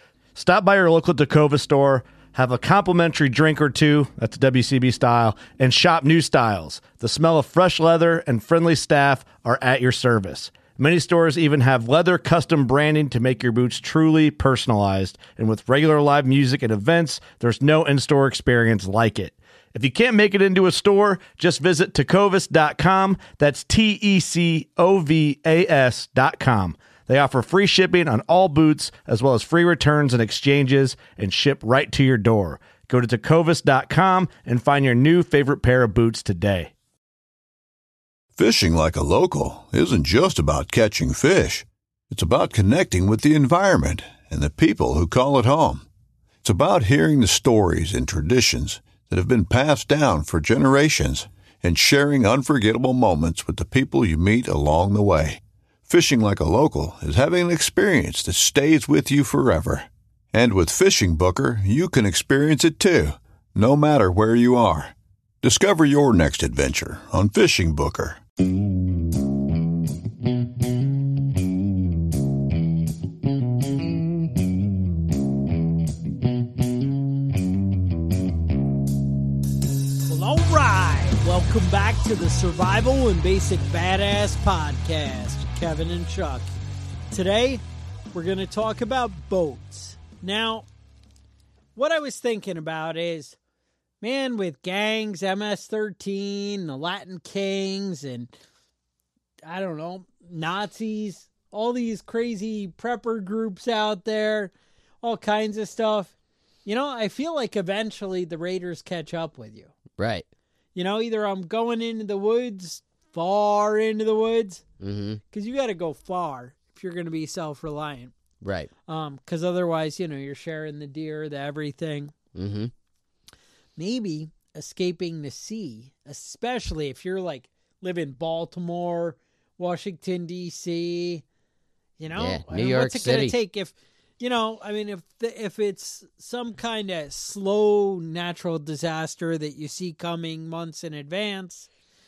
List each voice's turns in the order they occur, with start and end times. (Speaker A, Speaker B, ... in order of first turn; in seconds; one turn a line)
Speaker A: 0.3-36.7
Speaker B: 38.4-45.9
Speaker B: 46.4-68.2
Speaker C: 80.1-86.5
Speaker C: 87.1-87.6
Speaker C: 88.1-90.7
Speaker C: 91.8-93.4
Speaker C: 94.0-98.3
Speaker C: 99.5-106.1
Speaker C: 106.7-109.7
Speaker D: 110.0-110.3
Speaker C: 110.8-114.6
Speaker D: 114.8-115.2
Speaker C: 115.3-118.1
Speaker D: 118.4-118.7
Speaker C: 118.9-122.1
Speaker D: 122.3-122.7
Speaker C: 123.8-131.2
Speaker C: 132.0-141.7
Speaker D: 132.2-133.3